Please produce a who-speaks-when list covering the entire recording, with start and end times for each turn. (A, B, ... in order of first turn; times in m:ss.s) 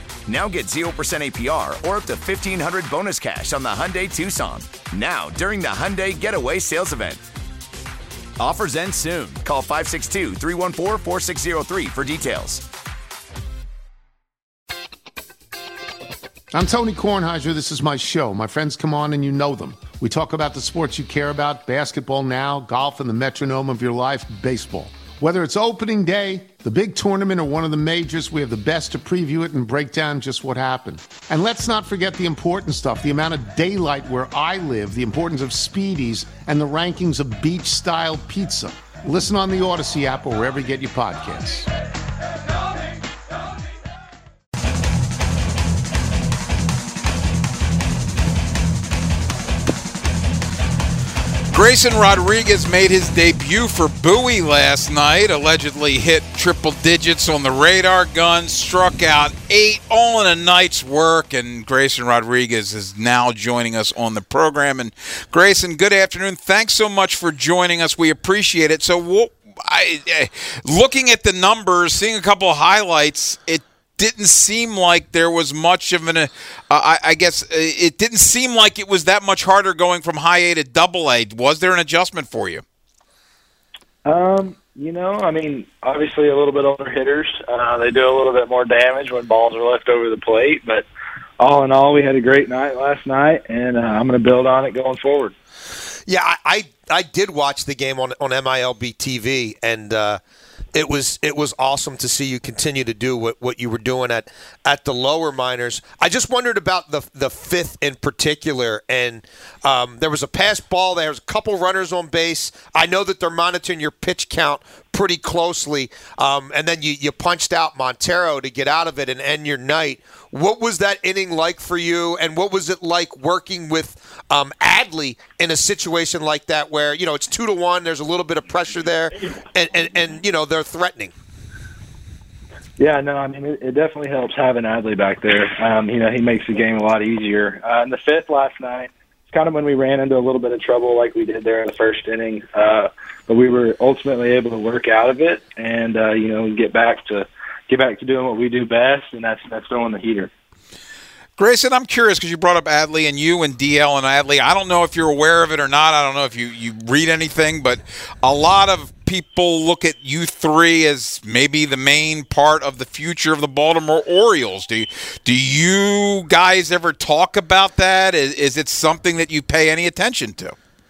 0:00.3-0:07.2 A
0:08.4-0:12.6 A
0:16.5-0:41.7 B
0:51.5-1:22.6 C
1:24.0-1:30.8 D
1:31.4-1:35.3 D
1:36.1-1:40.2 E
1:40.7-2:11.1 E
2:12.8-2:30.3 D
2:31.4-2:50.5 C